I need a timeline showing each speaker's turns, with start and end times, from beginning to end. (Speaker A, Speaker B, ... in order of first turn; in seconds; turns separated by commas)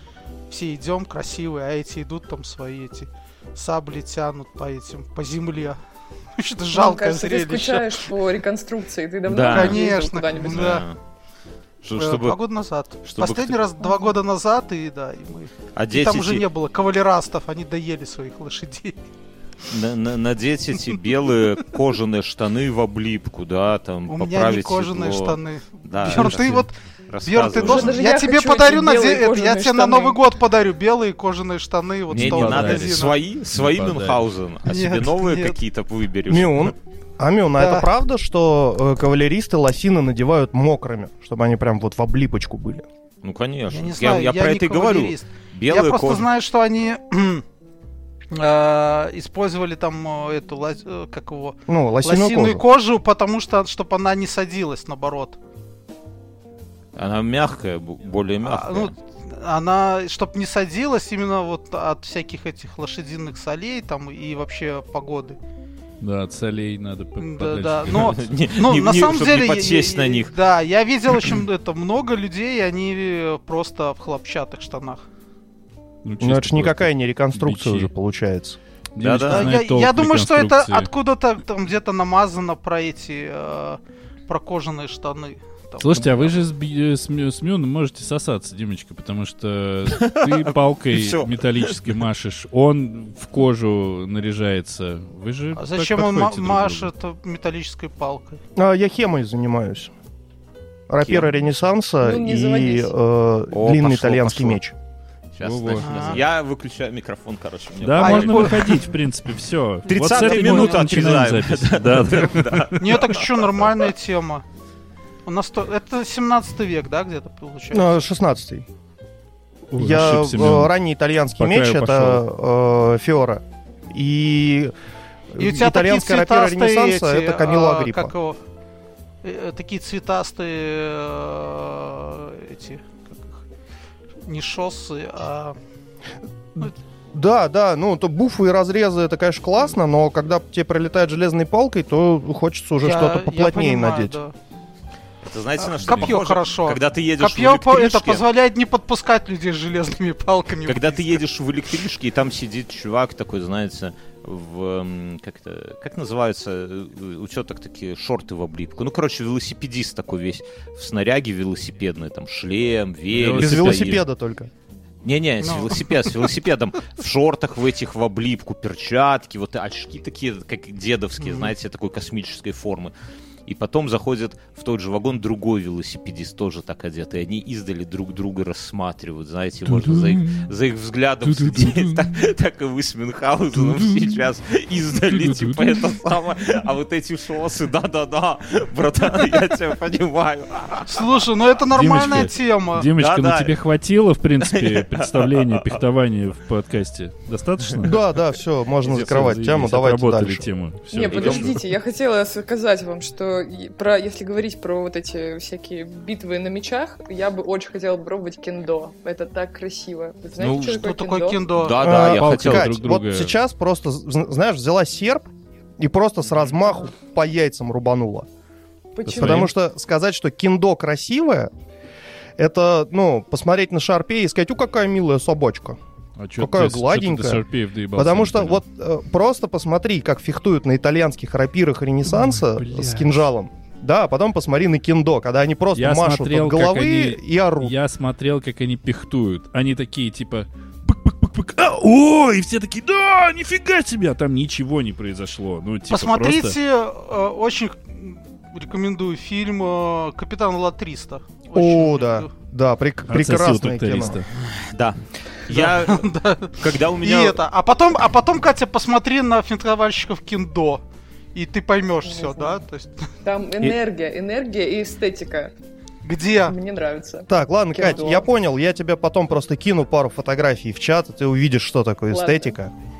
Speaker A: 0.5-5.8, Speaker A: 6.3-8.1, Speaker B: 6.7-10.8, Speaker C: 9.3-11.0, Speaker A: 9.4-10.8, Speaker C: 11.8-12.4, Speaker A: 11.9-19.0, Speaker C: 13.0-13.6, Speaker B: 13.8-14.1, Speaker C: 15.8-16.4, Speaker C: 19.7-28.0, Speaker A: 24.1-26.7, Speaker D: 26.1-26.6, Speaker A: 27.2-33.2, Speaker B: 27.6-30.2, Speaker C: 32.1-36.7, Speaker D: 32.1-34.2, Speaker A: 34.7-35.6, Speaker E: 36.3-42.9, Speaker A: 37.6-37.9, Speaker C: 43.2-46.3, Speaker A: 43.7-47.4, Speaker A: 48.3-55.4, Speaker E: 51.7-52.6, Speaker C: 57.0-58.9, Speaker A: 58.4-65.4, Speaker D: 66.0-68.3, Speaker A: 67.2-75.0, Speaker C: 67.9-70.3, Speaker D: 76.0-77.9, Speaker E: 76.2-78.6, Speaker D: 79.0-80.9, Speaker C: 79.0-79.6, Speaker A: 79.3-86.4, Speaker D: 85.8-96.9, Speaker C: 89.9-91.8, Speaker A: 95.5-98.4, Speaker E: 98.5-99.9, Speaker E: 100.9-104.7, Speaker C: 101.0-101.3, Speaker B: 102.0-102.9, Speaker C: 103.5-104.6, Speaker C: 105.3-108.8, Speaker D: 105.4-106.2, Speaker A: 105.8-106.2, Speaker D: 107.8-112.9, Speaker A: 108.0-108.7, Speaker C: 109.9-113.4, Speaker A: 110.0-111.2, Speaker A: 112.8-114.4, Speaker A: 115.2-117.9, Speaker E: 117.7-118.7, Speaker D: 119.7-120.7, Speaker E: 119.8-124.7, Speaker D: 121.4-122.2, Speaker E: 125.3-128.1, Speaker A: 125.4-128.4, Speaker A: 129.2-133.4, Speaker A: 134.2-135.6, Speaker E: 136.6-144.2, Speaker A: 142.8-144.3, Speaker C: 145.2-148.3, Speaker A: 145.6-151.2, Speaker C: 150.7-164.0, Speaker D: 163.1-164.0, Speaker E: 163.2-164.5, Speaker C: 165.0-172.9, Speaker A: 165.4-166.1, Speaker A: 171.2-171.5, Speaker C: 173.4-191.1, Speaker D: 179.7-180.5, Speaker D: 181.2-182.1, Speaker D: 183.6-184.1, Speaker D: 185.1-185.7, Speaker A: 190.9-192.9, Speaker D: 191.7-198.0, Speaker C: 193.0-193.5, Speaker C: 194.4-195.7, Speaker E: 197.8-200.5, Speaker D: 198.9-201.6, Speaker B: 200.9-211.4, Speaker C: 201.0-201.6, Speaker C: 210.4-210.8, Speaker A: 210.6-212.0, Speaker C: 211.5-212.7, Speaker E: 211.8-215.3, Speaker D: 212.0-213.3, Speaker E: 215.8-218.3, Speaker B: 218.9-219.4, Speaker D: 219.1-219.5, Speaker E: 219.1-221.5, Speaker E: 222.4-225.8, Speaker D: 226.2-228.6, Speaker E: 226.4-227.4, Speaker E: 227.9-237.7, Speaker D: 232.1-233.2, Speaker D: 235.7-246.6, Speaker A: 245.9-252.3, Speaker E: 251.5-254.2, Speaker D: 253.1-254.3, Speaker C: 254.5-257.4, Speaker A: 255.5-260.8, Speaker A: 261.3-263.1, Speaker B: 262.0-262.6, Speaker B: 263.2-265.5, Speaker A: 266.0-266.6, Speaker B: 266.4-268.3, Speaker E: 267.3-272.7, Speaker B: 272.1-272.5